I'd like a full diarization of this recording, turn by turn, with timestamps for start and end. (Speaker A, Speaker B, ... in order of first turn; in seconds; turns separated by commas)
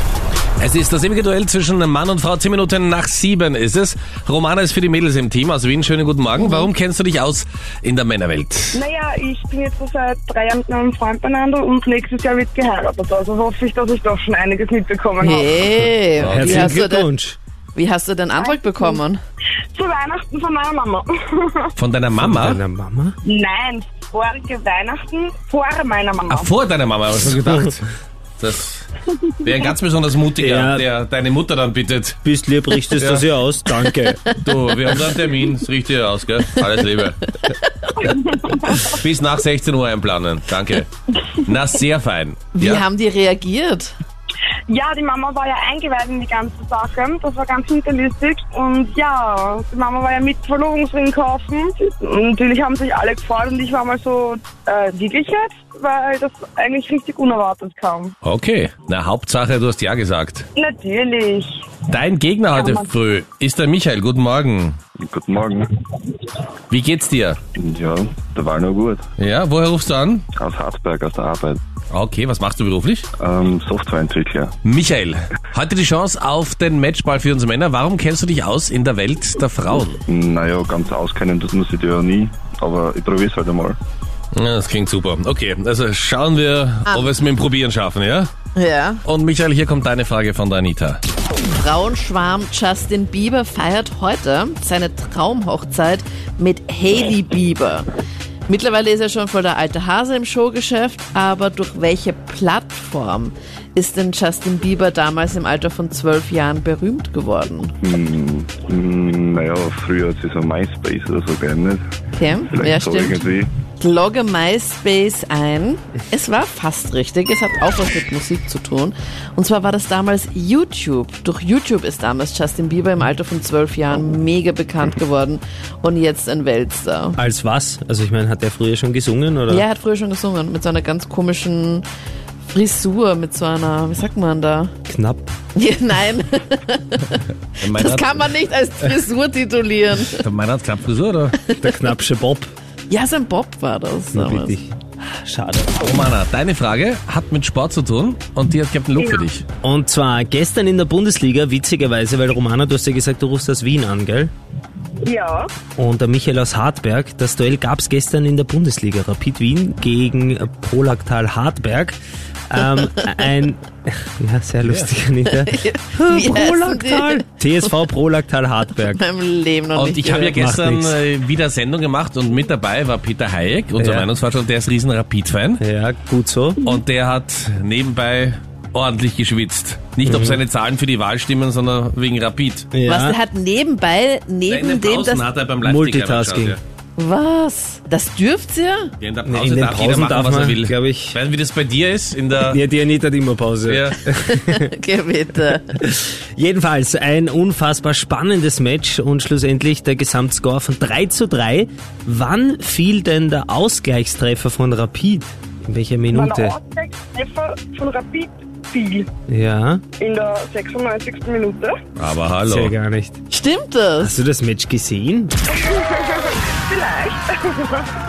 Speaker A: 0.6-8.8, Speaker B: 8.7-15.8, Speaker C: 15.2-17.1, Speaker A: 16.2-16.8, Speaker D: 16.2-17.4, Speaker C: 17.7-19.2, Speaker B: 18.4-19.0, Speaker B: 19.7-21.7, Speaker A: 21.8-22.6, Speaker D: 22.2-23.1, Speaker B: 23.2-26.5, Speaker A: 26.3-28.9, Speaker A: 29.4-32.2, Speaker D: 30.4-30.9, Speaker D: 32.2-34.3, Speaker A: 33.0-33.2, Speaker A: 34.4-37.4, Speaker C: 37.4-38.1, Speaker B: 38.0-38.9, Speaker A: 38.8-42.8, Speaker C: 42.5-43.9, Speaker B: 44.7-58.1, Speaker A: 58.2-60.5, Speaker B: 60.5-61.8, Speaker A: 61.9-64.8, Speaker B: 62.5-62.9, Speaker E: 65.0-65.7, Speaker A: 66.7-67.4, Speaker E: 67.5-69.0, Speaker A: 69.2-70.2, Speaker E: 70.3-71.6, Speaker A: 71.9-73.1, Speaker E: 73.2-74.5, Speaker A: 74.6-80.0, Speaker E: 80.1-83.8, Speaker A: 84.3-88.3, Speaker C: 86.9-87.1, Speaker C: 88.5-89.0, Speaker A: 89.0-91.0, Speaker C: 91.5-97.9, Speaker C: 98.5-107.7, Speaker E: 107.8-111.8, Speaker C: 112.1-127.2, Speaker E: 112.5-113.5, Speaker D: 127.2-129.7, Speaker C: 129.5-131.8, Speaker C: 132.5-134.7, Speaker D: 134.9-135.3, Speaker C: 135.5-140.2, Speaker A: 137.6-138.3, Speaker A: 140.2-141.3, Speaker D: 141.6-142.5, Speaker C: 142.9-144.6, Speaker D: 144.1-145.8, Speaker A: 145.8-149.4, Speaker B: 149.0-149.3, Speaker D: 149.6-154.3, Speaker B: 155.0-155.5, Speaker D: 155.8-162.0, Speaker D: 162.5-169.0, Speaker A: 164.6-164.9, Speaker C: 165.2-167.8, Speaker C: 168.8-170.4, Speaker A: 169.8-175.6, Speaker D: 170.3-171.0, Speaker D: 173.8-174.1, Speaker D: 175.6-176.6, Speaker A: 176.6-182.7, Speaker D: 180.0-180.4, Speaker D: 182.7-183.2, Speaker C: 182.8-185.2, Speaker A: 184.5-186.6, Speaker D: 185.6-186.6, Speaker C: 187.0-188.9, Speaker A: 189.0-192.6, Speaker D: 189.2-191.2, Speaker D: 192.4-194.7, Speaker A: 193.7-194.0, Speaker C: 194.1-195.8, Speaker D: 195.7-206.6, Speaker B: 206.1-209.1, Speaker D: 209.3-209.8, Speaker B: 210.0-211.8, Speaker A: 212.0-212.7, Speaker D: 212.4-213.2, Speaker C: 213.3-214.1, Speaker D: 214.0-215.3, Speaker B: 215.5-217.9